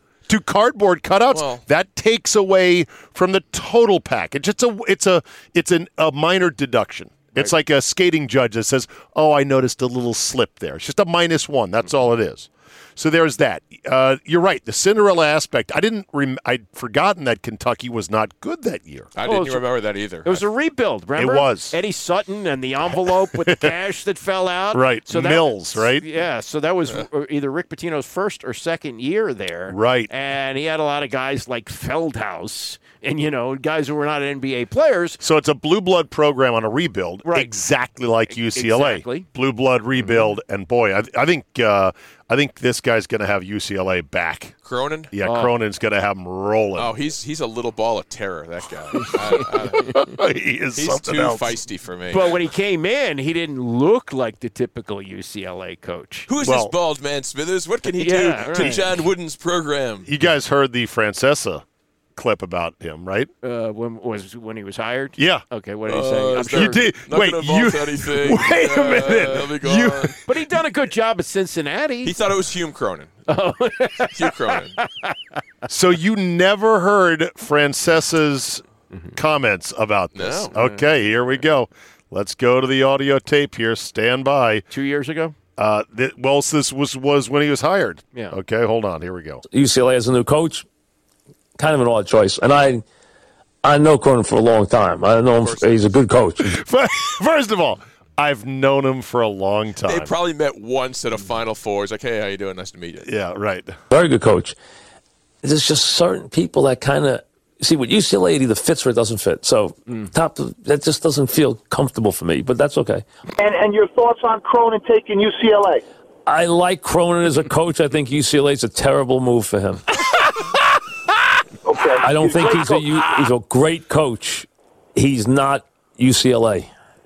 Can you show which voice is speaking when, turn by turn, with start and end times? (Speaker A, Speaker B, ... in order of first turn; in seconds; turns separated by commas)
Speaker A: 0.3-19.1, Speaker B: 1.3-1.6, Speaker B: 19.1-20.4, Speaker C: 19.2-19.6, Speaker C: 20.2-35.2, Speaker A: 21.2-21.8, Speaker A: 23.0-23.7, Speaker A: 24.7-26.0, Speaker A: 29.7-30.1, Speaker A: 35.2-44.5, Speaker C: 37.2-37.5, Speaker C: 38.3-39.3, Speaker C: 40.0-40.3, Speaker B: 44.6-45.1, Speaker A: 45.1-46.9, Speaker C: 45.2-45.5, Speaker B: 46.8-49.9, Speaker A: 49.8-51.5, Speaker B: 50.8-52.4, Speaker C: 52.1-56.3, Speaker B: 56.3-60.1, Speaker A: 56.4-56.7, Speaker C: 57.9-58.9, Speaker A: 60.0-61.6, Speaker A: 62.1-63.3, Speaker C: 63.4-66.8, Speaker A: 65.2-65.4, Speaker B: 65.8-70.2, Speaker A: 66.5-70.2, Speaker C: 70.2-72.1, Speaker B: 72.0-73.1, Speaker C: 73.3-75.2, Speaker B: 74.1-74.8, Speaker A: 75.7-78.6, Speaker A: 79.1-84.7, Speaker B: 80.1-80.5, Speaker C: 80.5-80.8, Speaker C: 84.7-85.3, Speaker A: 85.6-89.4, Speaker D: 89.5-90.7, Speaker D: 91.6-92.8, Speaker D: 93.6-96.6, Speaker B: 95.4-95.8, Speaker A: 96.4-100.1, Speaker B: 99.8-103.0, Speaker A: 103.0-103.8, Speaker D: 103.9-104.5, Speaker D: 105.4-113.0, Speaker E: 113.4-115.8, Speaker D: 116.2-119.8, Speaker E: 121.7-123.1, Speaker D: 121.9-126.7